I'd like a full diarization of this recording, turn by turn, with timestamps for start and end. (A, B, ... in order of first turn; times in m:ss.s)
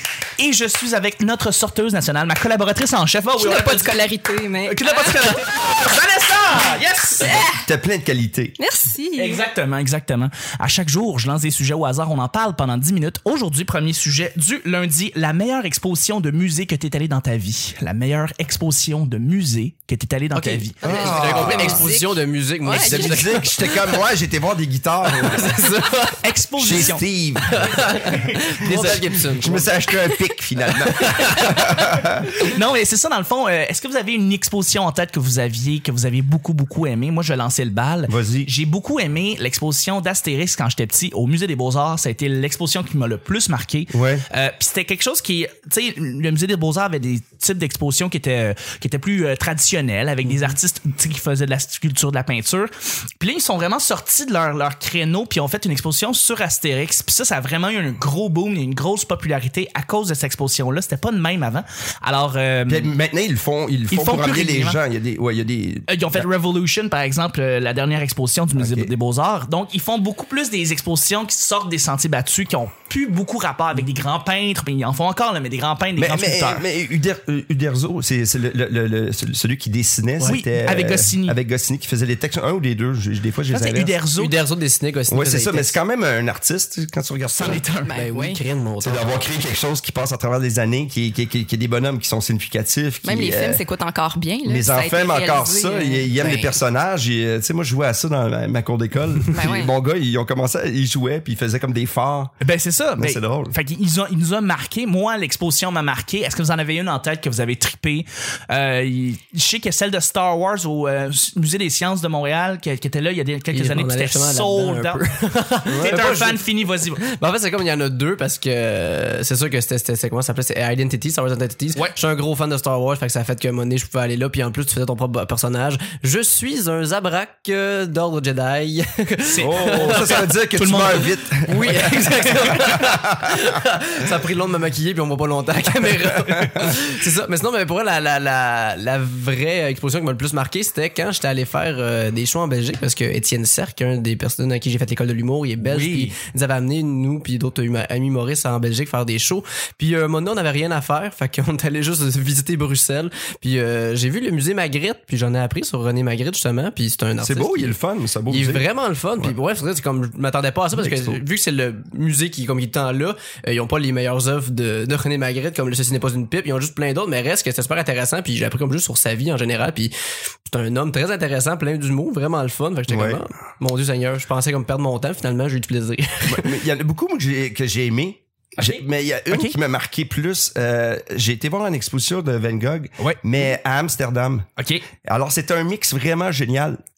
0:00.4-0:04.0 A
0:03.4-0:05.4 B
0:04.6-0:07.4 A
0:07.2-0:07.6 B
0:07.4-0:08.6 C
0:08.6-0:09.4 B
0:09.2-0:20.8 A
0:20.3-0:24.0 D
0:20.8-0:23.5 B
0:20.8-0:21.8 C
0:22.7-0:25.6 C
0:25.1-0:26.2 D
0:26.2-0:27.0 A
0:26.6-0:28.0 C
0:27.5-0:29.7 D
0:28.0-0:28.8 A
0:28.6-0:32.3 C
0:31.0-0:31.6 D
0:32.2-1:02.9 A
0:38.1-0:38.5 C
0:43.9-0:44.2 C
1:02.7-1:06.3 C
1:03.9-1:04.8 A
1:05.9-1:16.6 A
1:08.5-1:08.9 C
1:16.0-1:24.0 C
1:20.2-1:21.4 A
1:23.5-1:24.3 A
1:24.2-1:25.8 D
1:25.1-1:27.6 C
1:27.3-1:27.9 A
1:27.8-1:28.4 B
1:27.9-1:29.2 D
1:28.8-1:33.6 C
1:33.0-1:36.6 B
1:34.4-1:42.3 C
1:39.3-1:39.7 B
1:42.4-1:55.0 A
1:43.0-1:43.5 C
1:53.5-2:10.3 D
1:55.6-1:56.2 C
1:55.8-1:57.0 A
2:09.2-2:11.1 A
2:09.4-2:13.4 C
2:11.5-2:37.8 D
2:25.6-2:26.2 A
2:37.2-2:38.6 C
2:38.3-2:49.9 D
2:40.8-2:41.2 C
2:50.5-2:56.6 D
2:52.9-2:53.2 C
2:56.3-3:04.5 C
2:58.6-2:59.6 A
3:04.6-3:04.8 A
3:05.0-3:06.8 C